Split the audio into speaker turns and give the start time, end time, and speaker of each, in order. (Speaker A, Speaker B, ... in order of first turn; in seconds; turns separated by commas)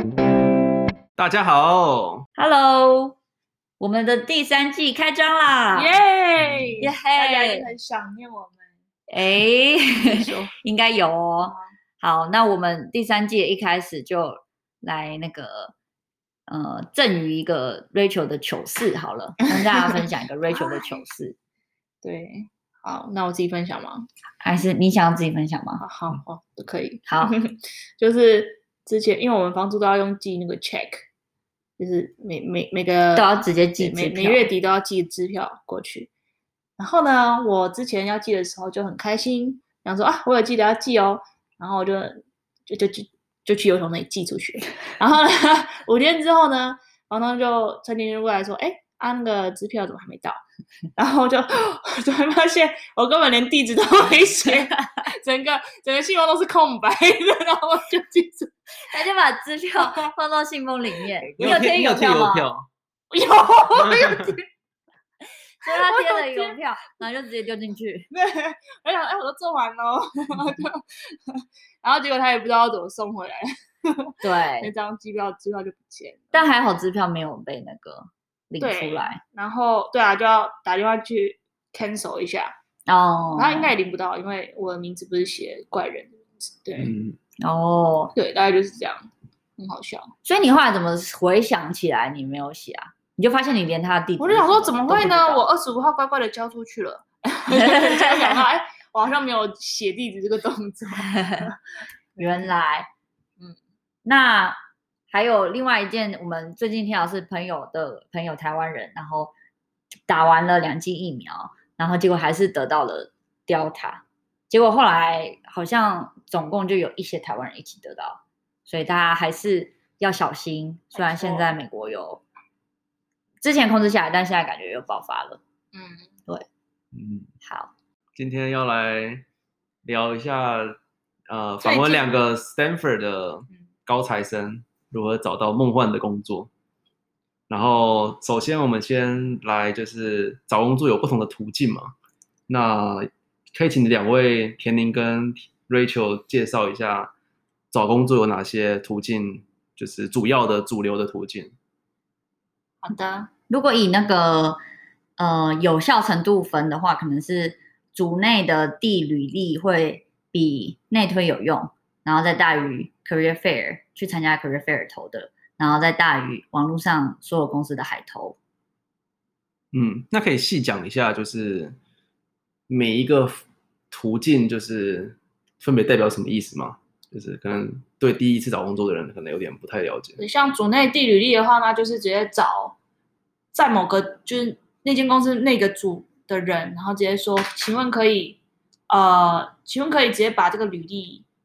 Speaker A: 1.1-2.2, Speaker B: 2.4-3.2, Speaker B: 3.8-5.9, Speaker C: 5.7-8.7, Speaker B: 6.8-7.7, Speaker B: 9.1-15.7, Speaker C: 10.0-10.5, Speaker B: 16.5-21.4, Speaker C: 19.5-19.9, Speaker C: 20.5-20.9, Speaker C: 22.0-24.1, Speaker B: 24.4-25.8, Speaker C: 25.8-31.0, Speaker B: 27.1-27.3, Speaker C: 31.8-36.1, Speaker B: 33.1-34.4, Speaker C: 36.8-50.4, Speaker C: 51.0-58.5, Speaker B: 58.9-62.5, Speaker A: 61.3-62.7, Speaker C: 63.1-64.5, Speaker A: 63.9-64.3, Speaker B: 65.6-68.1, Speaker C: 65.7-66.5, Speaker C: 68.1-76.3, Speaker B: 74.2-74.7, Speaker B: 76.3-79.2, Speaker C: 78.6-82.5, Speaker B: 82.9-83.7, Speaker C: 83.3-86.9, Speaker A: 86.8-87.2, Speaker B: 87.4-88.1, Speaker C: 88.1-90.1, Speaker B: 90.2-95.4, Speaker C: 94.2-101.6, Speaker B: 97.5-98.4, Speaker B: 102.2-102.9, Speaker B: 104.0-104.6, Speaker B: 105.1-109.3, Speaker B: 110.1-122.2, Speaker C: 120.9-121.5, Speaker B: 123.4-125.4, Speaker C: 125.7-126.1, Speaker A: 126.9-127.3, Speaker B: 127.4-127.7, Speaker A: 128.2-129.2, Speaker A: 129.8-136.5, Speaker C: 131.6-132.1, Speaker A: 137.5-141.9, Speaker A: 142.5-147.1, Speaker A: 147.7-151.5, Speaker C: 152.8-153.3, Speaker B: 153.5-154.6, Speaker B: 155.2-168.3, Speaker A: 169.7-171.8, Speaker A: 172.7-173.4, Speaker A: 173.9-180.2, Speaker C: 180.2-182.8, Speaker C: 183.5-191.2